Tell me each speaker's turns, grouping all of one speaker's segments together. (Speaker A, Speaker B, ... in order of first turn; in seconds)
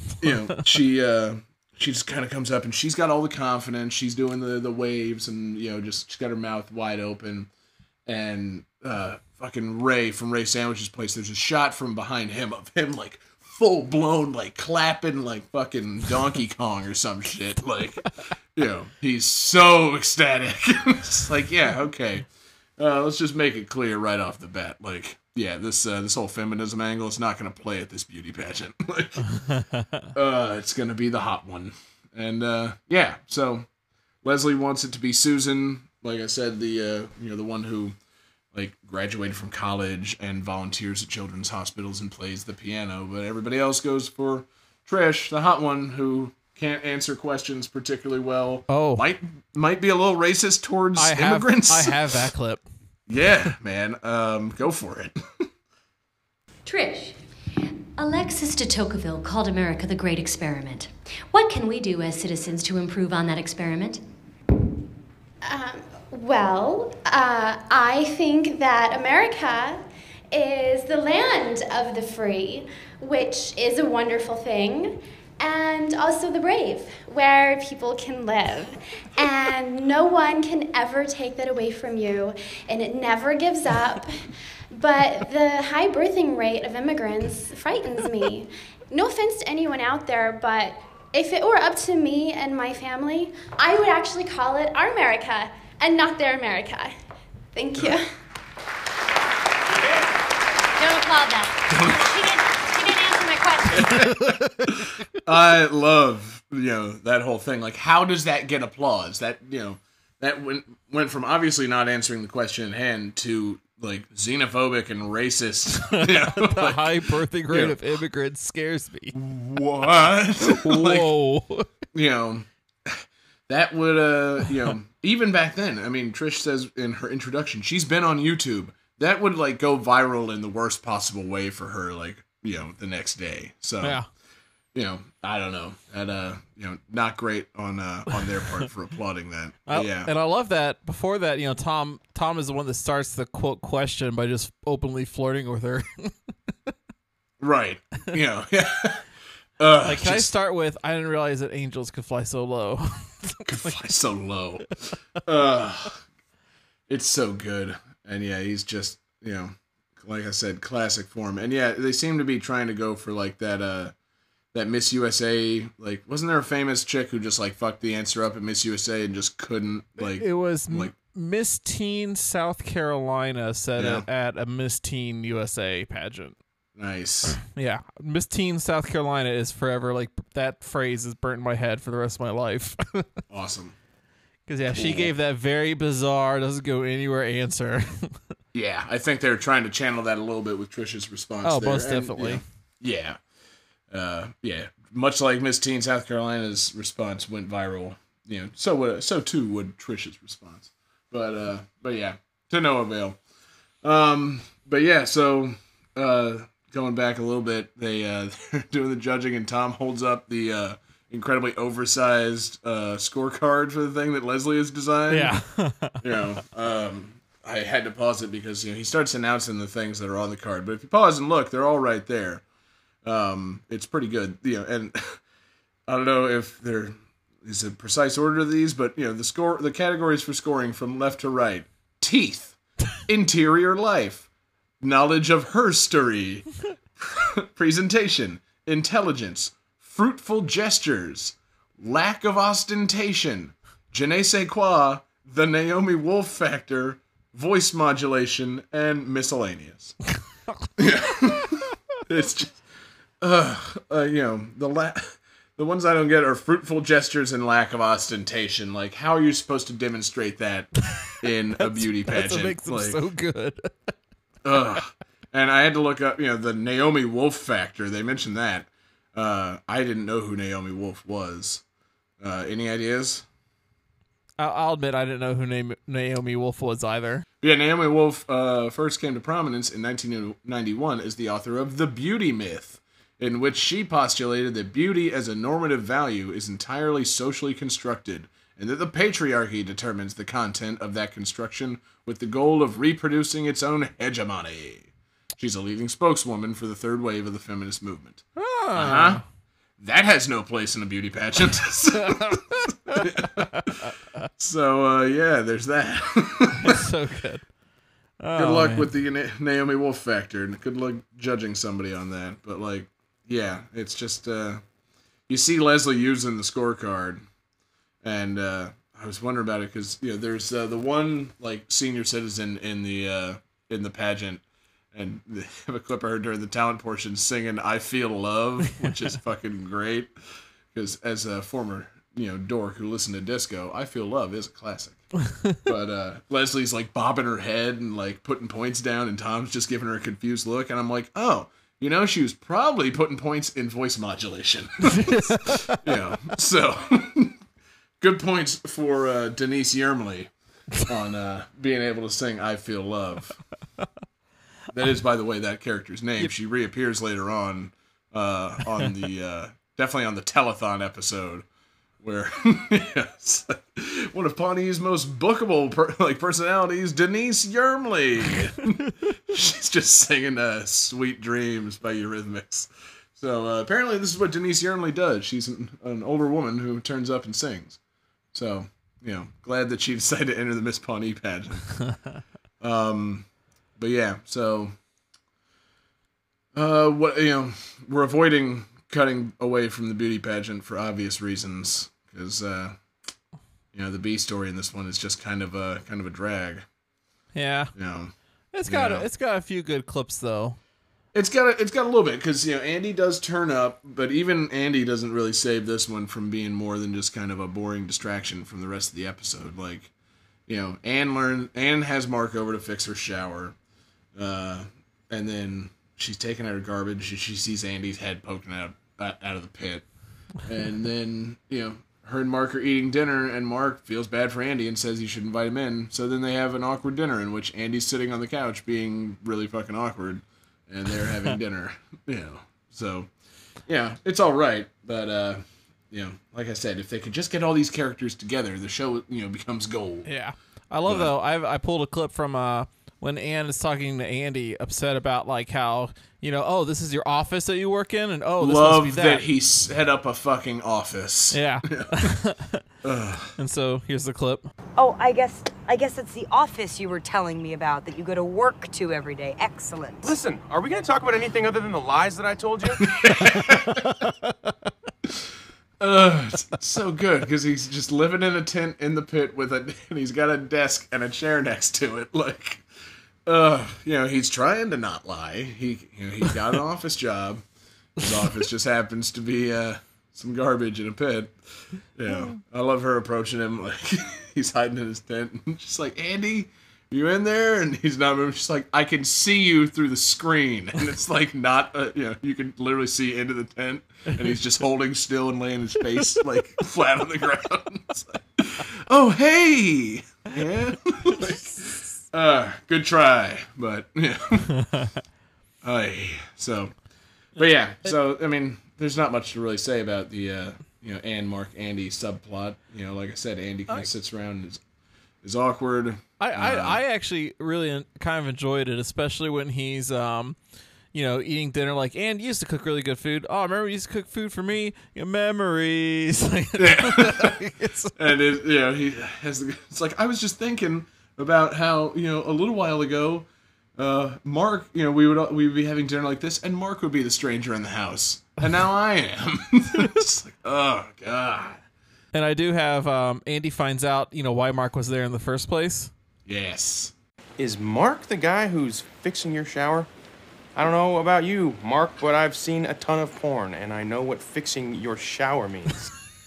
Speaker A: 0.2-7.5, 8.1-29.3, 30.1-33.7, 34.2-37.9, 38.5-52.2, 53.1-55.4, 105.2-117.8, 119.1-121.1, 121.9-134.0, 134.7-140.1, 147.4-149.1, 149.6-150.3, 153.4-156.0, 156.9-163.9, 164.5-170.9, 173.8-174.0, 176.8-177.4, 183.3-183.8, 184.7-185.1, 188.5-193.2, 193.9-203.2, 203.8-215.4, 216.0-222.4, 223.0-225.2, 225.9-234.3, 234.8-249.9, 250.8-252.6, 253.2-263.0, 264.4-271.6, 272.2-273.2, 277.4-298.2, 298.7-299.2, 299.8-303.8, 304.4-306.8, 308.3-314.6, 315.3-317.2, 318.0-324.4, 324.9-330.1, 330.7-335.0, 335.6-347.4, 348.0-353.4, 354.7-361.4, 362.0-377.8, 378.3-381.8, 382.6-384.7, 386.5-392.8, 393.7-396.6, 397.8-398.1, 398.6-399.1, 401.1-409.9, 410.5-413.5, 414.1-419.9, 420.4-433.1, 433.6-440.1, 440.9-441.1, 448.4-451.9, 452.8-453.3, 462.8-463.9, 465.8-472.6, 473.2-477.4, 478.0-504.5, 505.6-506.7, 507.4-514.6, 515.2-516.8, 526.6-527.4, 528.0-533.2, 533.8-541.6, 546.3-546.9
Speaker B: 48.7-49.0, 51.0-52.6, 103.9-104.7, 115.8-119.1, 120.5-121.7, 139.7-146.1, 149.8-153.7, 170.1-176.3, 177.5-183.1, 184.5-188.2, 191.4-192.4, 215.1-216.0, 261.6-263.7, 274.4-277.2, 298.4-299.2, 306.6-307.5, 308.2-308.9, 344.9-345.8, 397.3-397.7, 398.5-400.6, 440.1-449.2, 451.3-452.6, 453.4-454.5, 516.2-520.4, 520.9-528.0, 542.1-545.9
Speaker C: 56.6-57.2, 58.0-64.0, 100.8-103.9
Speaker D: 65.4-96.9, 97.5-98.1
Speaker E: 454.8-460.1
Speaker F: 460.0-462.8, 547.4-549.9, 550.5-555.9